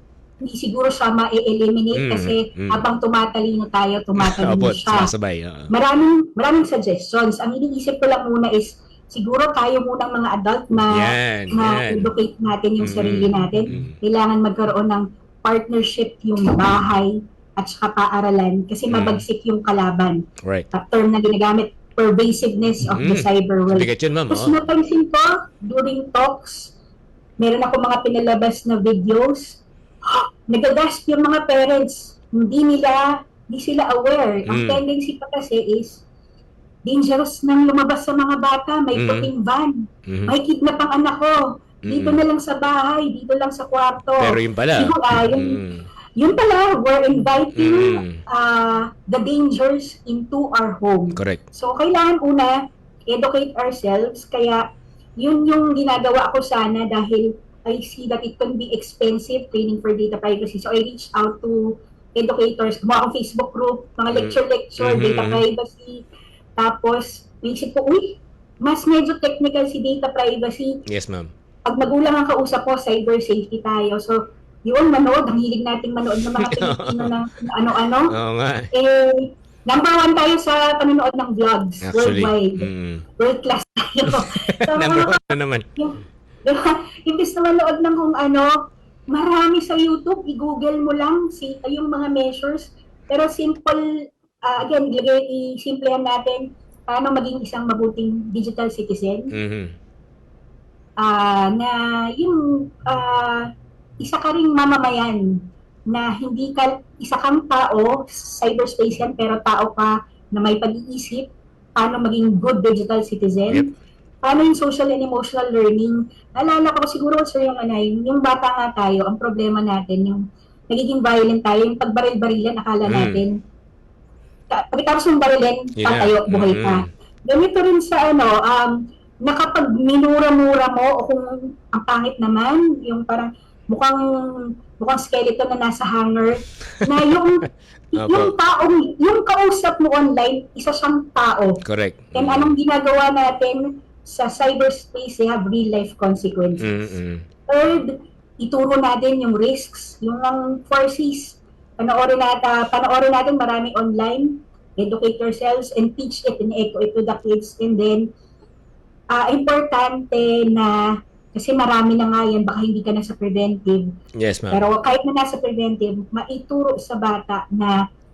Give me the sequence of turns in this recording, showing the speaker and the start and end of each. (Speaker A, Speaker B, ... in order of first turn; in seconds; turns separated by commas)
Speaker A: 0.4-5.1, Speaker B: 1.9-2.8, Speaker B: 4.2-5.7, Speaker A: 5.7-20.2, Speaker B: 10.9-12.1, Speaker B: 12.8-13.9, Speaker B: 18.9-19.2, Speaker A: 20.7-26.7, Speaker B: 22.9-24.5, Speaker A: 27.4-36.0, Speaker B: 34.5-34.8, Speaker A: 36.9-45.6, Speaker B: 38.9-39.3, Speaker B: 40.1-40.3, Speaker B: 41.9-42.2, Speaker B: 44.2-45.9, Speaker A: 46.2-52.5, Speaker B: 47.5-48.2, Speaker B: 51.1-51.4, Speaker A: 53.1-54.6, Speaker A: 55.2-66.0, Speaker B: 64.1-65.4, Speaker A: 66.6-70.8, Speaker B: 70.9-71.3, Speaker A: 71.6-78.1, Speaker B: 76.3-77.1, Speaker B: 78.1-78.7, Speaker A: 78.7-82.7, Speaker B: 81.8-83.0, Speaker A: 83.2-88.5, Speaker B: 84.7-85.7, Speaker A: 89.1-93.8, Speaker A: 94.4-99.3, Speaker B: 99.3-99.7, Speaker A: 101.0-103.5, Speaker A: 104.0-105.3, Speaker A: 105.9-113.7, Speaker A: 114.2-123.3, Speaker B: 122.8-123.2, Speaker A: 124.5-134.0, Speaker B: 125.8-126.8, Speaker A: 134.8-141.6, Speaker B: 138.0-138.3, Speaker B: 141.6-142.6, Speaker A: 142.1-146.9, Speaker B: 146.6-147.2, Speaker A: 147.5-158.1, Speaker A: 159.1-160.8, Speaker A: 161.3-163.9, Speaker B: 164.2-164.7, Speaker A: 164.5-167.8